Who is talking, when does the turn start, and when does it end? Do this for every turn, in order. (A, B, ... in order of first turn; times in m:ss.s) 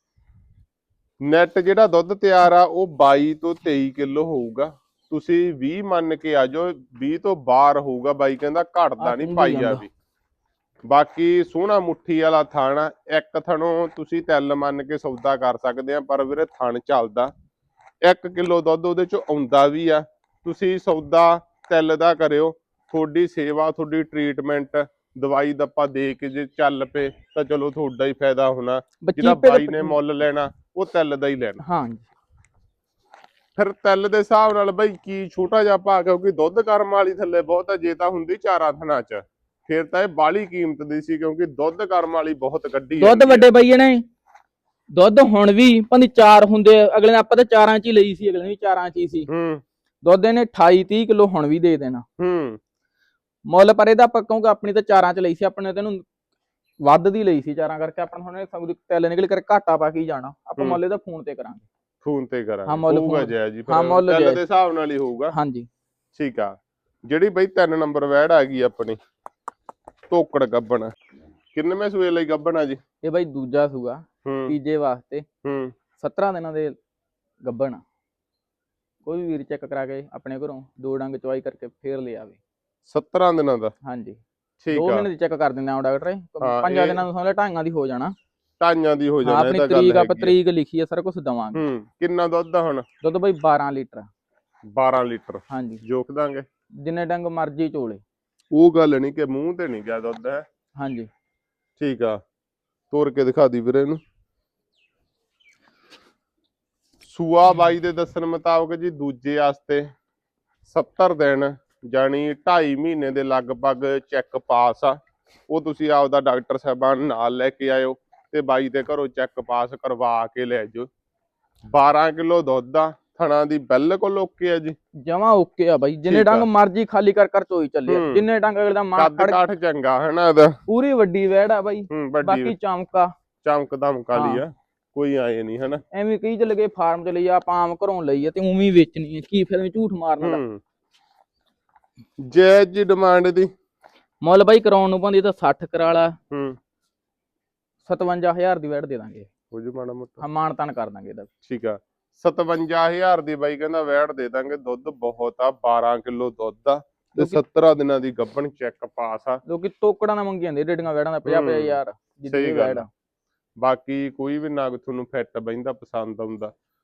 0:01.2-0:09.9 A
0:09.0-0:09.8 B
0:10.9-0:17.3 A
0:18.0-0:31.6 A
0:29.0-0:30.0 B
0:31.6-0:32.1 B
0:33.6-0:43.5 A
0:43.0-0:44.0 B
0:44.9-0:49.3 B
0:49.3-0:49.6 A
0:50.0-0:52.0 B
0:52.2-0:52.6 A
0:53.5-0:56.0 B
0:56.8-1:01.6 B
1:02.0-1:05.3 A
1:02.7-1:04.4 B
1:05.3-1:05.7 B
1:06.1-1:06.5 A
1:07.0-1:09.0 A
1:10.1-1:10.9 A
1:11.5-1:12.8 A
1:13.0-1:15.2 B
1:14.2-1:14.6 A
1:15.4-1:15.7 A
1:16.0-1:16.8 B
1:17.4-1:17.8 B
1:19.0-1:22.4 B
1:22.8-1:23.7 A
1:23.8-1:24.2 B
1:24.6-1:25.1 A
1:24.7-1:28.1 B
1:26.4-1:27.0 A
1:28.6-1:30.3 A
1:29.2-1:31.6 B
1:31.5-1:32.8 A
1:33.0-1:34.1 B
1:34.7-1:36.4 A
1:35.5-1:35.8 B
1:36.8-1:38.0 B
1:38.5-1:40.4 A
1:40.8-1:41.1 B
1:41.8-1:42.2 A
1:42.9-1:44.0 A
1:47.0-1:49.9 A
1:50.6-1:55.0 A
1:55.5-2:00.9 A
2:01.7-2:04.8 A
2:05.0-2:09.4 B
2:06.1-2:06.5 A
2:07.9-2:08.2 A
2:09.0-2:10.6 A
2:10.7-2:13.1 B
2:11.9-2:12.5 A
2:13.4-2:15.8 A
2:14.1-2:14.4 B
2:15.9-2:20.4 B
2:20.2-2:20.6 A
2:22.2-2:23.5 A
2:24.2-2:26.1 B
2:26.3-2:26.6 A
2:27.8-2:29.3 B
2:29.5-2:30.2 A
2:30.2-2:31.3 B
2:31.4-2:39.4 A
2:39.4-2:42.9 B
2:41.3-2:41.8 A
2:42.3-2:42.8 A
2:43.6-2:46.5 A